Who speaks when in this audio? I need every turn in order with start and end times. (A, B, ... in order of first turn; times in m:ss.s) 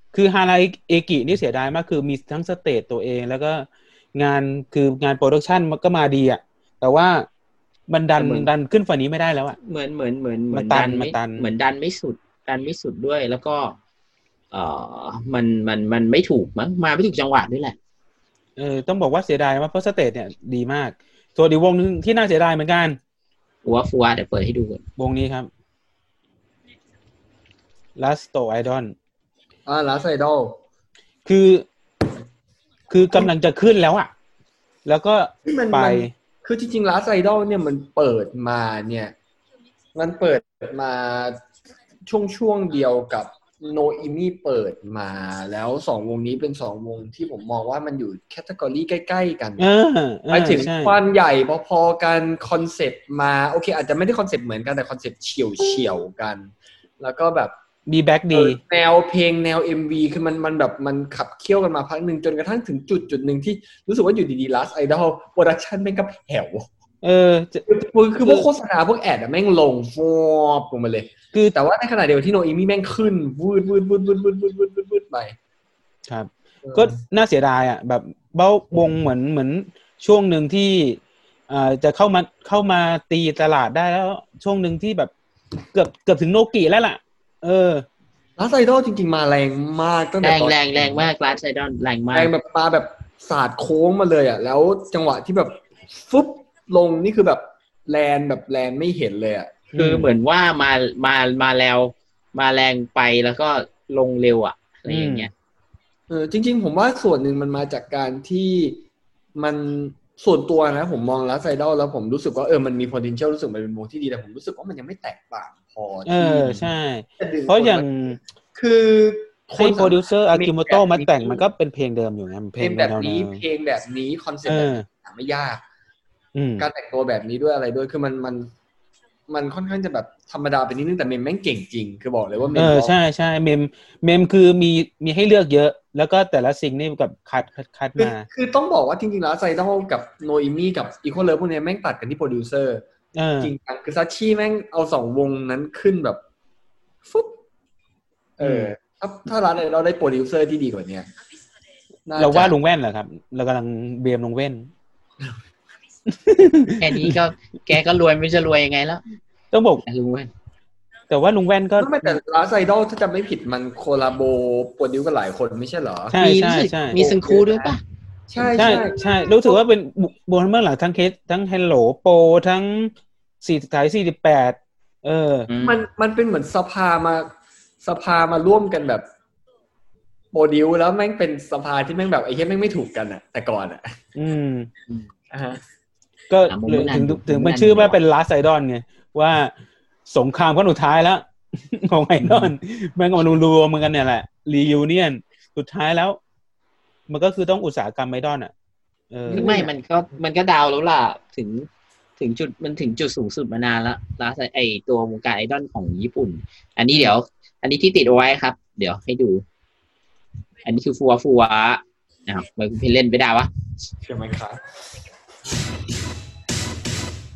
0:00.1-0:07.3 A
0:07.9-0:09.6 A
0:08.2-0:08.5 B
0:09.6-0:13.8 B
0:10.5-0:11.5 A
0:14.5-0:17.8 B
0:18.6-0:23.0 A
0:23.6-0:24.8 B
0:25.0-0:25.5 A
0:28.0-0:29.0 A
0:29.7-0:30.6 C
0:31.3-0:31.7 A
0:32.9-0:34.1 A
0:34.8-0:36.1 A
0:35.4-0:39.1 C
0:40.0-0:41.4 C
0:42.1-0:49.6 C
0:49.6-0:51.0 A
0:50.3-0:57.6 C
0:57.9-0:58.6 A
0:58.3-1:06.7 C
1:07.0-1:07.6 A
1:07.7-1:15.4 C
1:08.2-1:08.5 A
1:16.1-1:25.1 A
1:16.6-1:17.0 C
1:25.7-1:27.9 A
1:28.4-1:31.1 C
1:30.2-1:32.3 B
1:32.1-1:39.6 C
1:39.7-1:40.1 A
1:39.8-1:45.3 B
1:44.9-1:45.3 A
1:46.1-1:48.8 C
1:49.4-1:56.6 C
1:56.0-1:58.2 A
1:57.2-2:01.4 C
1:59.6-2:03.4 A
2:02.6-2:05.6 C
2:04.5-2:04.9 A
2:06.4-2:06.7 A
2:06.6-2:08.5 C
2:09.3-2:13.0 C
2:12.6-2:18.3 A
2:18.0-2:22.8 C
2:23.1-2:23.5 A
2:23.4-2:26.2 C
2:27.1-2:27.4 C
2:28.4-2:31.1 C
2:28.4-2:28.7 A
2:32.1-2:32.6 C
2:32.2-2:34.7 A
2:36.1-2:37.2 A
2:36.8-2:39.0 B
2:39.5-2:39.8 A
2:39.8-2:40.3 B
2:41.1-2:42.2 A
2:41.8-2:46.2 C
2:46.1-2:47.0 A
2:46.1-2:47.8 B
2:46.9-2:47.8 C
2:48.3-2:49.6 C
2:48.4-2:55.5 A
2:55.5-2:55.8 B
2:55.6-2:57.3 C
2:57.8-2:59.1 C
3:00.3-3:04.0 C
3:04.2-3:04.7 A
3:05.3-3:05.6 C
3:06.3-3:09.5 A
3:06.5-3:08.0 B
3:10.1-3:16.2 A
3:17.1-3:18.5 A
3:19.1-3:19.7 A
3:19.3-3:29.4 B
3:19.4-3:19.7 C
3:30.6-3:33.5 B
3:34.0-3:34.6 C